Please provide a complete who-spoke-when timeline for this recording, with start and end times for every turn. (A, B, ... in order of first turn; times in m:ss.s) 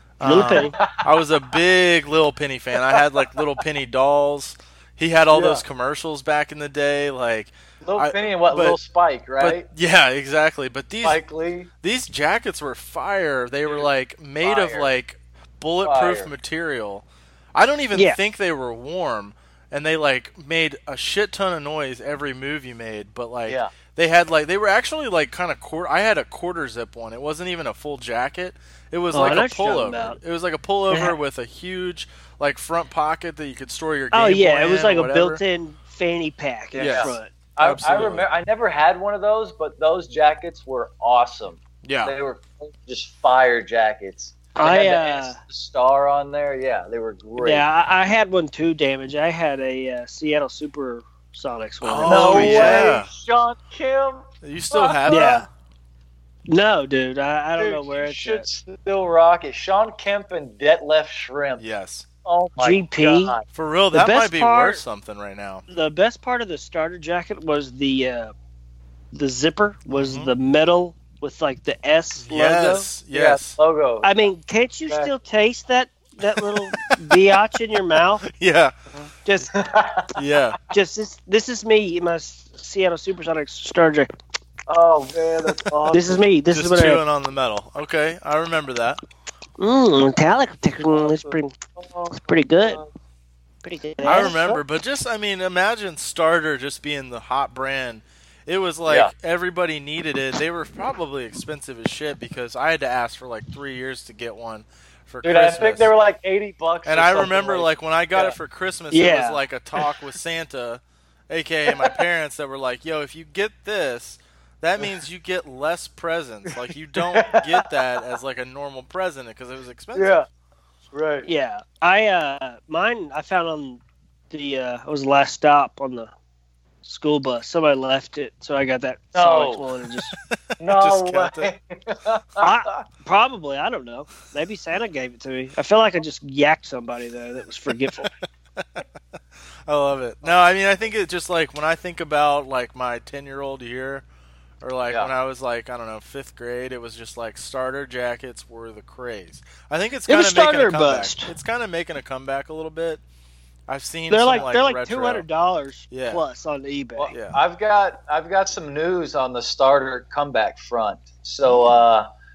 0:00.2-0:08.8 A
0:00.2-0:00.7 B
0:00.3-0:01.0 C
0:05.3-0:05.6 C
0:07.8-0:09.6 C
0:09.4-0:11.2 A
0:11.0-0:11.7 C
0:11.8-0:35.4 A
0:14.4-0:14.9 C
0:15.8-0:16.3 C
0:29.1-0:30.2 B
0:34.1-0:37.3 B
0:36.7-0:47.6 C
0:36.8-0:38.3 A
0:41.8-0:42.1 A
0:44.6-0:45.4 B
0:47.4-0:52.9 B
0:51.8-0:53.1 A
0:52.0-0:55.4 C
0:54.4-0:55.5 A
0:55.1-0:55.4 B
0:56.5-0:58.4 B
0:57.6-1:01.6 C
1:01.6-1:02.0 A
1:02.2-1:03.4 C
1:02.6-1:03.3 B
1:03.5-1:05.6 A
1:03.9-1:04.8 B
1:05.7-1:08.3 B
1:09.1-1:12.9 B
1:09.9-1:10.3 A
1:12.2-1:13.6 A
1:13.1-1:14.3 C
1:14.0-1:18.2 B
1:16.4-1:17.2 A
1:18.2-1:18.7 A
1:18.9-1:20.1 C
1:19.2-1:19.5 B
1:20.1-1:20.6 A
1:20.7-1:24.1 B
1:24.7-1:26.2 C
1:25.9-1:27.0 B
1:26.5-1:29.0 A
1:29.6-1:31.5 B
1:30.9-1:32.9 C
1:32.2-1:32.8 B
1:33.6-1:34.4 B
1:34.0-1:45.9 A
1:34.2-1:34.6 C
1:38.8-1:39.1 C
1:45.2-1:48.4 C
1:46.8-2:00.2 A
1:48.9-1:49.4 B
1:51.7-1:51.9 C
1:57.1-1:57.8 C
1:59.9-2:00.2 C
2:00.9-2:01.3 C
2:01.2-2:03.8 B
2:04.3-2:06.1 B
2:06.8-2:10.1 B
2:09.1-2:09.6 C
2:10.3-2:11.5 A
2:10.6-2:12.5 C
2:12.4-2:18.1 B
2:18.6-2:18.8 A
2:19.7-2:24.0 A
2:24.6-2:33.0 A
2:30.1-2:31.3 B
2:33.7-2:35.2 A
2:34.1-2:37.1 B
2:35.9-2:36.2 A
2:37.0-2:42.1 C
2:37.1-2:37.4 A